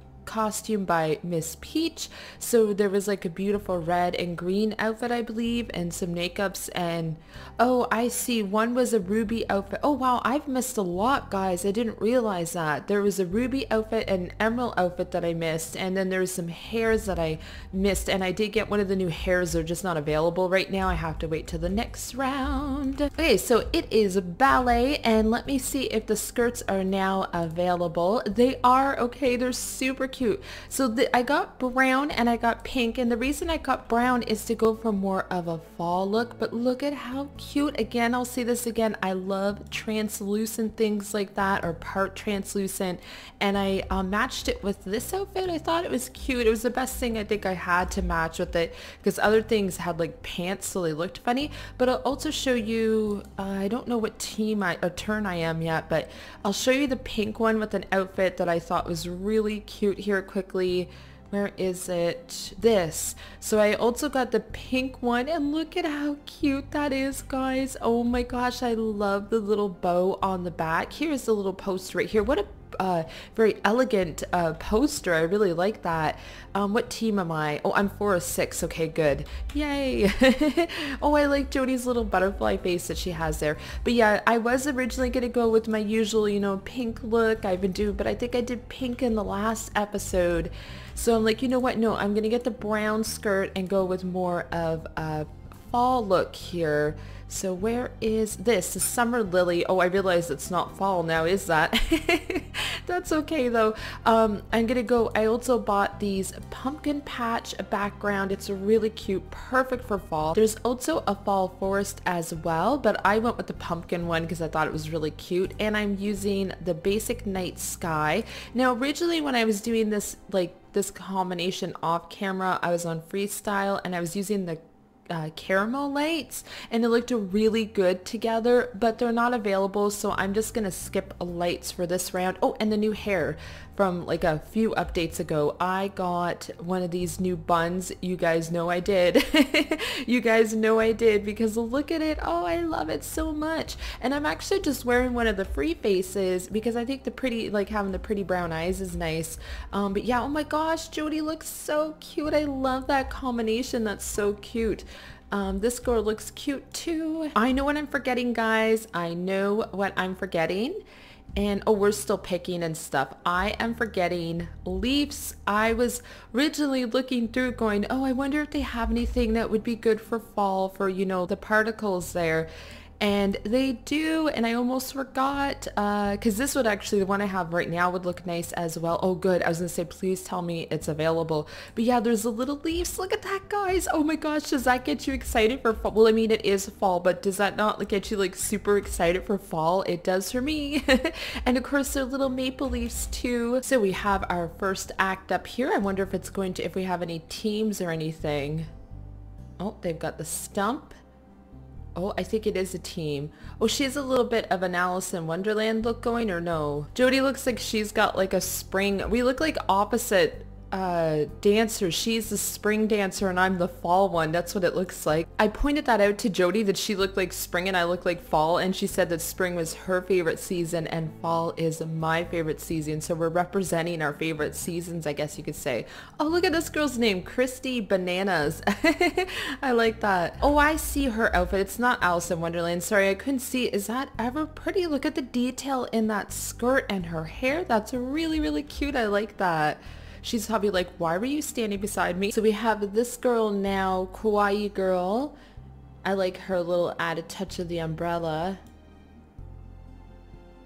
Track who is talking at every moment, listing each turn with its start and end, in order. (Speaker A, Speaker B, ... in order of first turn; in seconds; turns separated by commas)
Speaker A: 0.2-160.8, Speaker A: 161.4-198.7, Speaker A: 199.6-200.9, Speaker A: 201.9-245.4, Speaker A: 246.0-248.6